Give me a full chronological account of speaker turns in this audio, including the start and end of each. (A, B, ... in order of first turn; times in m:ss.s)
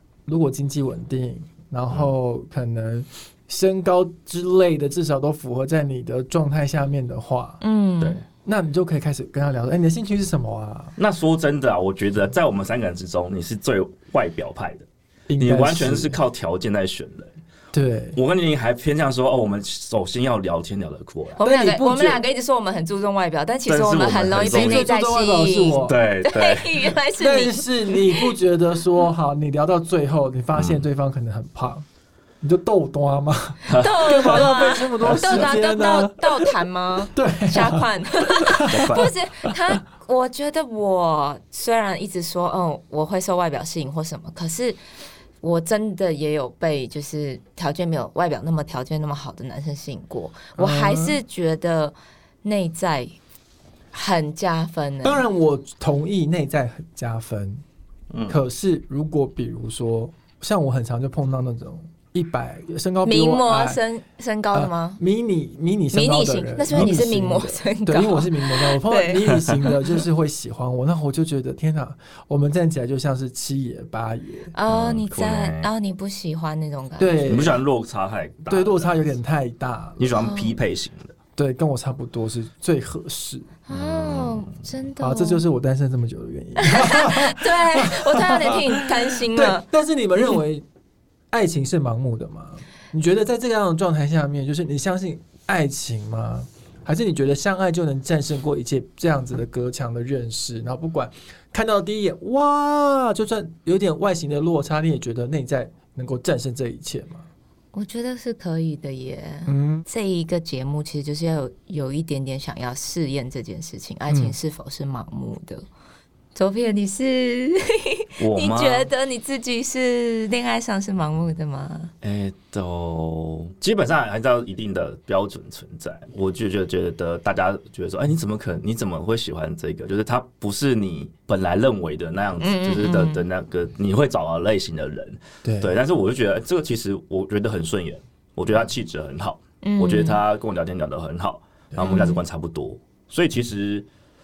0:00.2-0:07.6 A
0:07.6-0:08.2 B
0:08.4-0:11.0 A
0:11.0-0:14.9 C
0:15.3-0:16.2 A
0:15.4-0:17.3 C
0:17.7-0:18.2 A
0:18.2-0:21.4 C
0:21.4-0:28.3 B
0:21.4-0:22.2 A
0:23.7-0:24.8 C
0:24.5-0:26.0 A
0:25.8-0:27.0 C
0:27.2-0:31.8 A
0:30.5-0:30.8 C
0:32.4-0:36.5 A
0:33.7-0:34.5 C
0:33.7-0:44.8 B
0:35.0-0:35.4 C
0:37.1-0:39.5 A
0:38.7-0:39.1 C
0:45.4-0:53.1 B
0:50.6-0:51.2 A
0:53.9-0:55.2 B
0:55.0-0:57.6 A
0:58.1-0:58.4 C
0:58.3-1:03.8 A
1:03.0-1:05.0 B
1:04.5-1:14.5 A
1:05.9-1:10.0 B
1:14.5-1:17.6 B
1:14.7-1:15.7 C
1:17.0-1:17.6 A
1:17.3-1:19.0 C
1:18.5-1:20.2 A
1:20.0-1:21.1 C
1:20.1-1:20.6 B
1:21.4-1:23.5 A
1:23.7-1:25.4 B
1:23.7-1:24.6 C
1:25.0-1:30.6 A
1:26.6-1:29.6 B
1:31.3-1:47.3 A
1:47.7-1:55.6 B
1:49.5-1:49.8 A
1:54.1-1:54.4 A
1:56.3-2:01.9 B
1:58.2-1:58.9 C
2:02.0-2:23.9 C
2:12.4-2:13.2 B
2:15.4-2:15.8 A
2:19.6-2:20.2 B
2:21.7-2:22.0 A
2:21.8-2:22.2 B